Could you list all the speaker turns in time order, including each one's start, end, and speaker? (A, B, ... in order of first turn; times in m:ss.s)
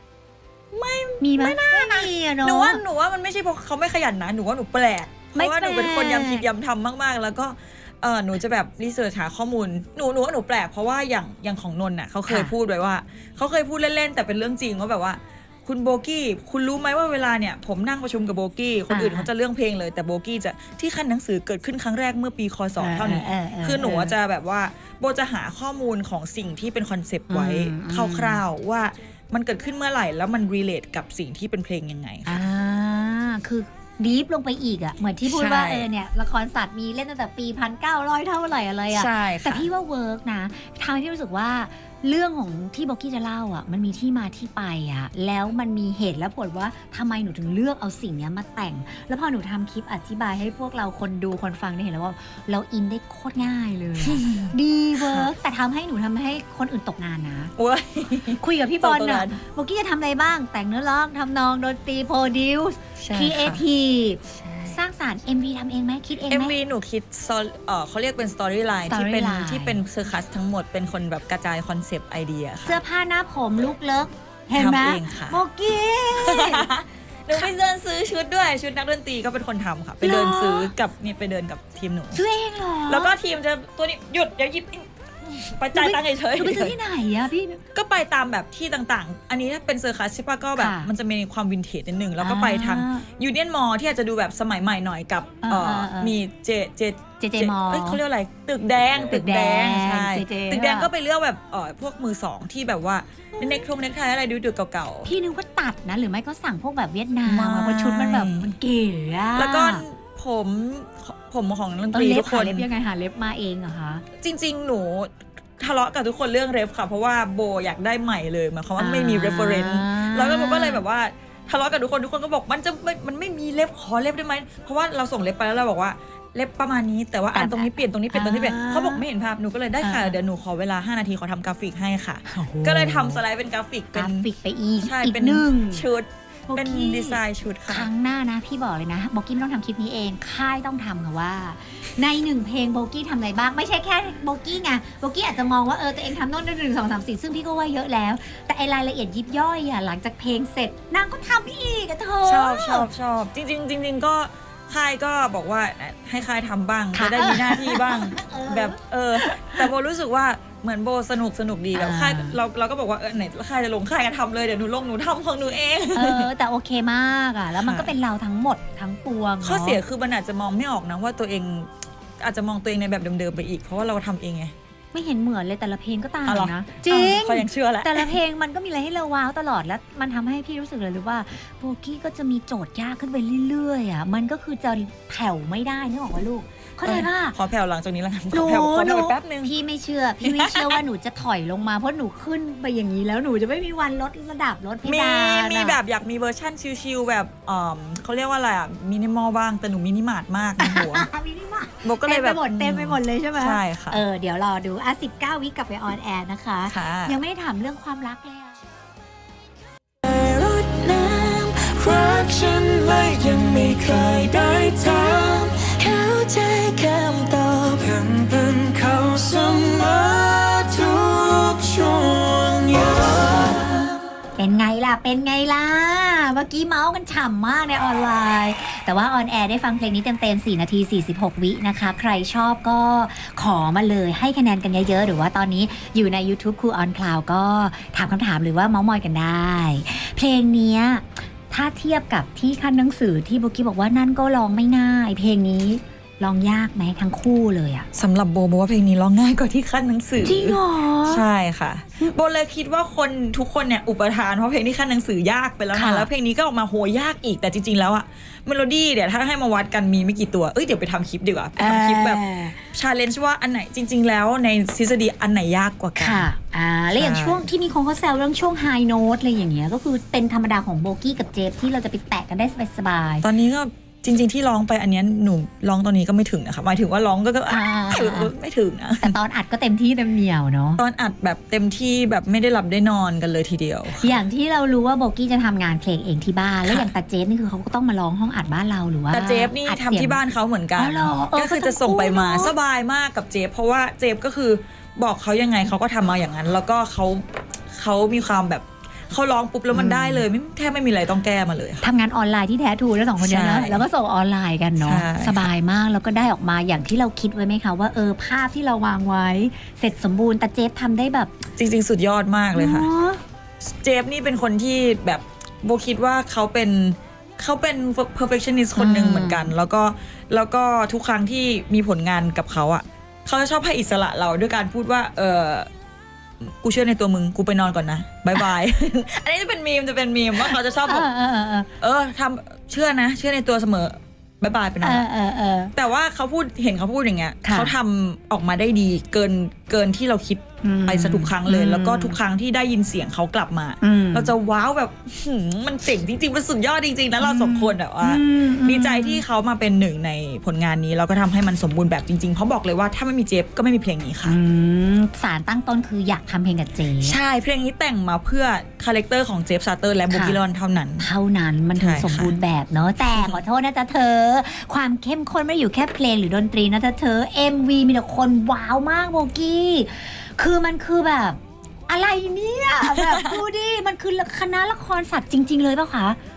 0:00.7-0:32.4 A
0:01.2-0:02.8 B
0:05.3-0:06.4 B
0:18.9-0:19.3 B
0:22.8-0:24.1 B
0:27.3-0:28.4 B
0:32.3-0:57.5 B
0:35.2-0:35.9 A
0:38.9-0:39.7 A
0:54.0-0:55.3 A
0:57.6-0:59.4 A
0:58.4-1:06.6 B
1:03.0-1:03.6 A
1:06.3-1:12.8 A
1:08.9-1:09.8 B
1:12.6-1:16.7 B
1:14.6-1:15.4 A
1:16.2-1:22.2 A
1:20.0-1:20.7 B
1:22.1-1:23.1 B
1:22.9-1:26.8 A
1:25.7-1:27.6 B
1:27.7-1:45.1 A
1:30.6-1:30.9 B
1:32.2-1:33.1 B
1:35.4-1:36.1 B
1:37.2-1:38.0 B
1:39.1-1:40.9 B
1:43.4-1:43.6 B
1:45.1-1:49.8 B
1:47.3-1:48.5 A
1:49.4-1:52.7 A
1:51.9-1:54.0 B
1:54.2-2:14.3 A
1:58.8-2:00.8 B
2:07.3-2:09.0 B
2:09.8-2:10.2 B
2:12.3-2:13.2 B
2:14.0-2:15.8 B
2:14.8-2:17.9 A
2:16.5-2:32.9 B
2:32.2-2:46.3 A
2:36.9-2:39.7 B
2:41.7-2:42.4 B
2:46.0-2:49.8 B
2:47.6-2:47.9 A
2:49.4-2:54.5 A
2:54.9-3:07.4 B
2:56.3-2:58.1 A
3:06.8-3:09.5 A
3:08.3-3:15.8 B
3:10.2-3:10.8 A
3:14.8-3:21.1 A
3:20.6-3:28.6 B
3:21.8-3:24.0 A
3:26.7-3:27.2 A
3:30.0-3:44.0 C
3:44.4-4:07.9 B
4:07.9-4:26.3 A
4:10.2-4:11.2 B
4:15.7-4:16.1 B
4:21.6-4:22.6 B
4:26.0-4:33.3 B
4:26.9-4:27.5 A
4:33.2-4:39.2 A
4:37.5-4:38.3 B
4:39.0-4:40.8 B
4:40.8-4:44.2 A
4:44.0-4:50.2 B
4:46.6-4:46.9 A
4:49.1-5:01.8 A
4:50.8-4:52.5 B
4:59.7-5:00.2 B
5:01.8-5:11.3 B
5:03.2-5:03.9 A
5:04.8-5:05.5 A
5:11.6-5:12.9 A
5:12.6-5:13.2 B
5:13.6-5:25.7 A
5:18.8-5:19.5 B
5:26.4-5:31.1 A
5:30.4-5:31.7 B
5:31.8-5:35.1 A
5:34.8-5:35.7 B
5:35.8-5:54.4 A
5:37.4-5:37.7 B
5:40.6-5:42.2 B
5:43.8-5:44.3 B
5:47.2-5:49.2 B
5:54.2-5:57.2 B
5:57.0-6:01.1 A
6:00.1-6:00.4 B
6:01.0-6:16.2 B
6:01.8-6:02.3 A
6:03.1-6:03.4 A
6:12.8-6:13.4 A